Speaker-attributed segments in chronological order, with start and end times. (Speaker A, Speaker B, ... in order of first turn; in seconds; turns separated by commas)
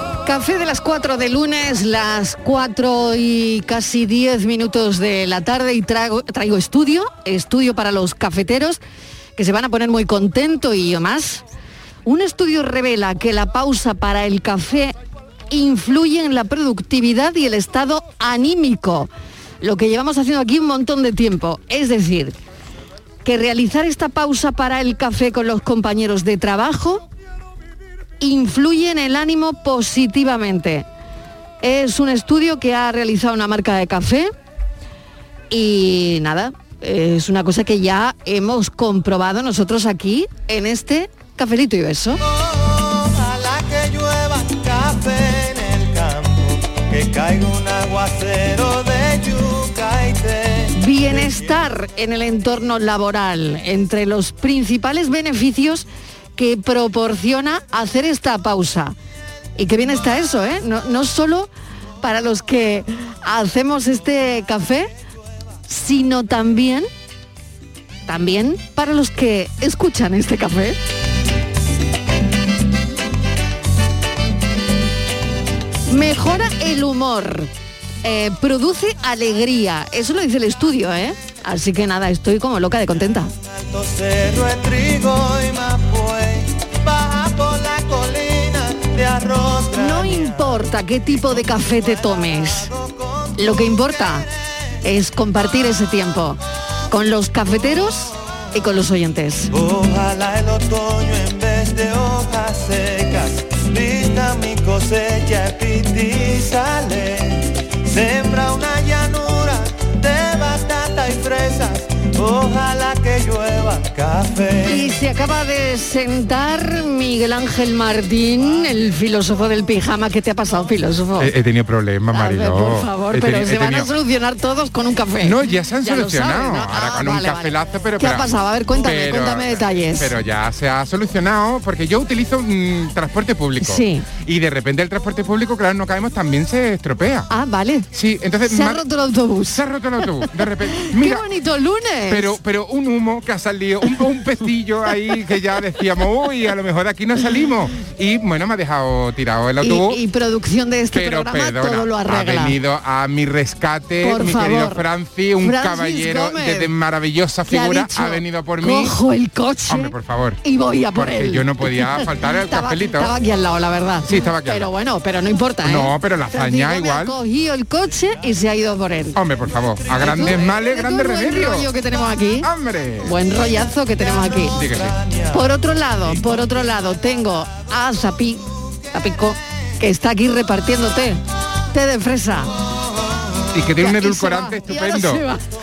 Speaker A: 0.3-8.8, Speaker A: 9.4-11.4, Speaker A: 12.1-14.9, Speaker A: 15.5-19.1, Speaker A: 19.6-22.4, Speaker A: 23.2-27.0, Speaker A: 28.2-30.9, Speaker A: 31.6-34.3, Speaker A: 35.5-42.2, Speaker B: 42.4-51.5, Speaker A: 50.8-55.9, Speaker A: 56.4-59.0, Speaker A: 59.6-61.5, Speaker A: 62.0-64.9, Speaker A: 65.7-66.9, Speaker A: 68.1-70.8, Speaker A: 75.9-77.5, Speaker A: 78.0-83.3, Speaker B: 83.5-90.4, Speaker A: 89.7-92.7, Speaker B: 91.1-93.6, Speaker A: 93.4-94.3, Speaker A: 94.8-99.5, Speaker B: 99.5-114.9, Speaker A: 114.7-121.3, Speaker C: 121.2-123.9, Speaker A: 122.1-130.2, Speaker C: 125.2-137.3, Speaker A: 133.6-134.1, Speaker A: 137.3-137.9, Speaker C: 137.9-138.8, Speaker A: 138.4-142.4, Speaker C: 139.5-141.2, Speaker C: 142.1-150.0, Speaker A: 149.6-152.6, Speaker C: 150.9-159.0, Speaker A: 154.0-154.9, Speaker A: 155.4-156.7, Speaker A: 157.5-169.2, Speaker C: 159.7-160.4, Speaker C: 160.9-163.2, Speaker C: 164.1-164.7, Speaker C: 165.6-167.2, Speaker C: 169.2-171.7, Speaker A: 170.0-174.6, Speaker C: 172.4-173.2, Speaker B: 174.0-176.5, Speaker C: 174.5-175.0, Speaker A: 175.3-181.2, Speaker A: 181.7-182.5, Speaker C: 183.5-185.2, Speaker A: 183.8-185.4